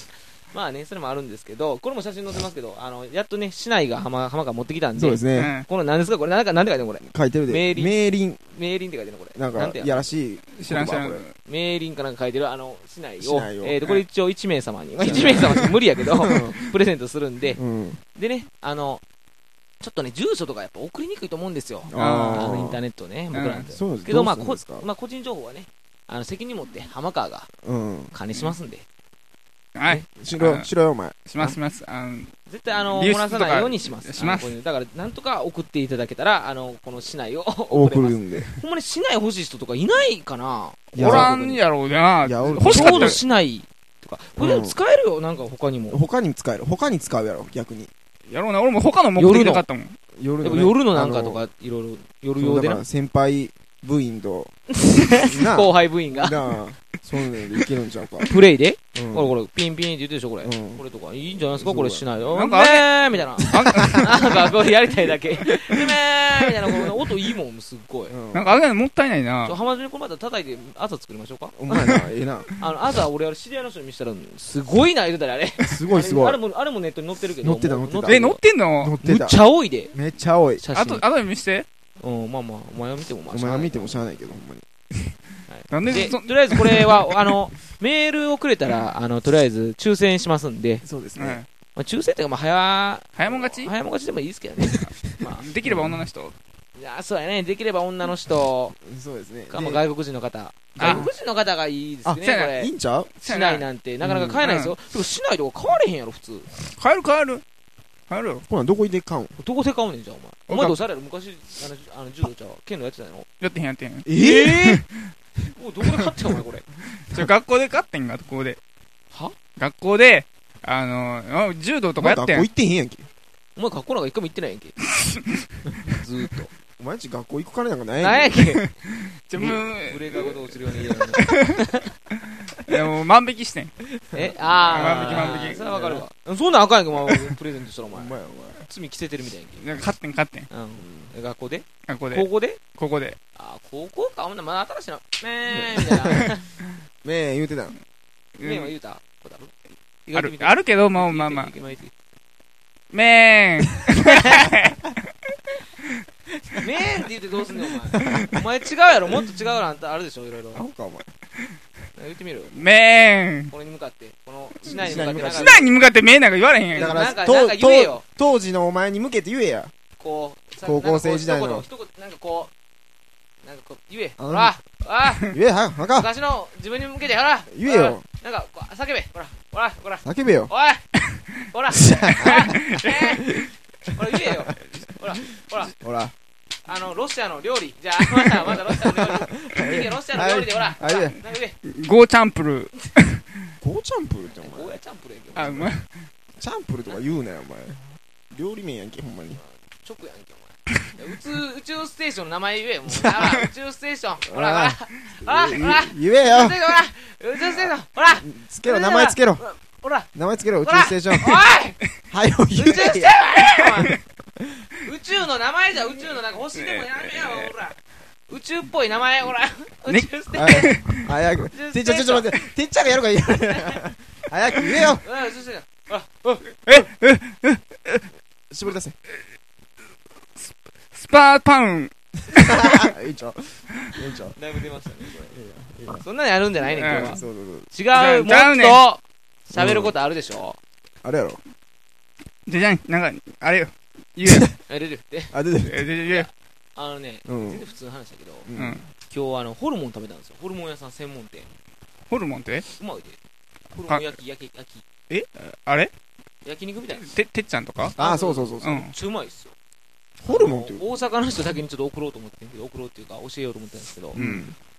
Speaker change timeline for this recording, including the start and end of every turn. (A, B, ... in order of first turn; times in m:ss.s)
0:00.5-0:10.1 A
0:05.0-0:05.5 B
0:05.3-0:05.7 C
0:07.0-0:08.4 B
0:09.3-0:11.2 B
0:10.5-0:11.3 C
0:11.4-0:17.6 A
0:13.2-0:13.8 B
0:15.0-0:16.6 B
0:17.6-0:18.0 B
0:18.1-0:19.0 A
0:19.8-0:27.5 A
0:21.9-0:22.8 B
0:21.9-0:22.5 C
0:23.3-0:23.7 C
0:23.7-0:24.8 B
0:27.6-0:28.1 B
0:28.1-0:28.8 A
0:29.7-0:30.7 C
0:30.1-0:31.2 B
0:31.3-0:34.5 C
0:32.5-0:41.6 A
0:37.7-0:38.5 B
0:40.9-0:41.3 B
0:41.0-0:43.2 C
0:42.2-0:43.2 B
0:42.5-0:46.0 A
0:44.4-0:44.8 B
0:45.9-0:47.9 B
0:48.3-0:50.0 C
0:49.2-0:49.6 A
0:50.2-0:51.4 B
0:50.4-0:52.8 A
0:52.4-0:54.5 B
0:54.7-0:56.5 A
0:55.2-0:58.3 B
0:58.2-1:08.1 A
0:58.9-0:59.3 B
1:00.4-1:00.8 B
1:01.5-1:02.1 B
1:02.3-1:04.4 C
1:03.5-1:04.1 B
1:05.4-1:05.7 B
1:08.1-1:08.5 B
1:08.3-1:09.6 C
1:09.4-1:18.4 A
1:11.5-1:12.5 B
1:15.6-1:16.4 B
1:17.4-1:18.2 B
1:18.0-1:19.0 C
1:18.8-1:19.4 B
1:19.0-1:19.9 A
1:19.9-1:20.6 B
1:20.6-1:21.0 A
1:20.7-1:21.6 C
1:22.0-1:24.2 A
1:23.3-1:24.6 B
1:25.5-1:30.8 A
1:25.7-1:27.2 C
1:30.8-1:31.4 B
1:31.1-1:31.4 C
1:31.7-1:35.5 A
1:33.2-1:33.7 C
1:34.8-1:36.3 C
1:35.6-1:36.0 B
1:36.8-1:38.7 A
1:38.7-1:39.8 B
1:39.5-1:42.7 A
1:40.7-1:41.1 B
1:40.8-1:41.1 C
1:42.0-1:43.2 B
1:42.2-1:42.5 C
1:43.2-1:43.6 C
1:43.2-1:46.5 A
1:44.0-1:44.4 B
1:44.4-1:44.7 C
1:46.7-1:47.4 C
1:48.1-1:48.4 C
1:48.5-1:49.4 B
1:49.4-1:53.3 A
1:50.5-1:50.8 C
1:53.4-1:54.1 C
1:54.0-1:54.8 B
1:54.1-1:54.8 A
1:55.4-1:56.7 A
1:56.9-1:58.6 C
1:59.1-1:59.4 A
1:59.6-2:02.5 C
2:02.0-2:03.1 B
2:03.6-2:04.8 A
2:04.9-2:05.4 C
2:05.6-2:06.5 A
2:06.8-2:08.4 B
2:08.0-2:08.7 A
2:09.3-2:10.4 C
2:09.4-2:11.9 A
2:11.2-2:11.6 C
2:12.5-2:13.8 C
2:14.1-2:16.0 B
2:14.1-2:19.6 A
2:14.7-2:16.0 C
2:17.9-2:18.6 B
2:19.6-2:20.5 C
2:20.5-2:22.7 A
2:20.8-2:21.1 B
2:21.9-2:23.2 C
2:23.3-2:26.5 A
2:27.0-2:27.8 B
2:28.4-2:28.7 C
2:28.4-2:29.5 A
2:30.0-2:31.9 A
2:30.1-2:31.5 C
2:32.9-2:34.9 C
2:34.0-2:34.5 A
2:36.6-2:40.6 A
2:37.9-2:38.4 B
2:40.5-2:41.1 B
2:42.0-2:42.6 A
2:42.5-2:43.5 C
2:43.5-2:45.7 A
2:44.6-2:45.7 B
2:44.7-2:47.0 C
2:46.7-2:48.0 A
2:46.7-2:49.7 B
2:50.0-2:52.5 A
2:50.6-2:51.6 B
2:53.4-2:55.3 A
2:54.2-2:54.5 B
2:55.3-2:56.1 B
2:55.9-3:00.9 A
2:57.5-2:58.0 B
3:00.0-3:00.5 B
3:01.5-3:05.7 A
3:01.7-3:03.5 B
3:02.2-3:02.9 C
3:04.2-3:04.6 B
3:05.8-3:06.1 B
3:06.6-3:11.6 A
3:08.8-3:11.2 B
3:11.6-3:13.2 C
3:13.6-3:14.8 B
3:14.3-3:15.7 A
3:15.3-3:15.9 C
3:16.4-3:19.4 B
3:16.9-3:17.1 A
3:19.4-3:30.1 A
3:22.9-3:23.4 B
3:24.2-3:26.6 B
3:27.5-3:29.4 B
3:30.1-3:31.5 B
3:30.6-3:31.8 A
3:32.1-3:34.6 B
3:32.5-3:34.0 A
3:34.8-3:37.8 A
3:36.6-3:37.5 C
3:38.3-3:40.8 A
3:39.9-3:41.1 C
3:40.3-3:45.0 B
3:41.5-3:42.5 A
3:43.5-3:43.8 A
3:45.0-3:46.7 A
3:46.6-3:48.0 C
3:48.5-3:48.9 B
3:50.4-3:51.9 C
3:52.3-3:54.4 B
3:54.3-3:55.3 A
3:55.0-3:56.0 B
3:55.9-4:00.6 A
3:56.8-3:57.2 C
3:56.8-3:57.7 B
3:57.9-3:58.8 C
3:59.5-3:59.9 B
4:01.0-4:01.4 B
4:02.4-4:04.5 C
4:04.6-4:05.3 A
4:05.3-4:05.9 B
4:05.6-4:06.3 C
4:06.0-4:08.5 A
4:07.2-4:07.6 B
4:08.4-4:08.9 B
4:08.5-4:08.8 C
4:09.1-4:11.5 A
4:12.1-4:12.6 C
4:12.8-4:13.2 A
4:13.7-4:14.8 A
4:13.9-4:14.2 C
4:15.1-4:15.9 C
4:16.4-4:17.0 A
4:16.9-4:18.0 C
4:18.0-4:18.9 B
4:18.0-4:19.5 A
4:18.6-4:18.9 C
4:20.2-4:20.8 B
4:20.3-4:24.2 A
4:24.1-4:24.5 C
4:24.1-4:24.5 B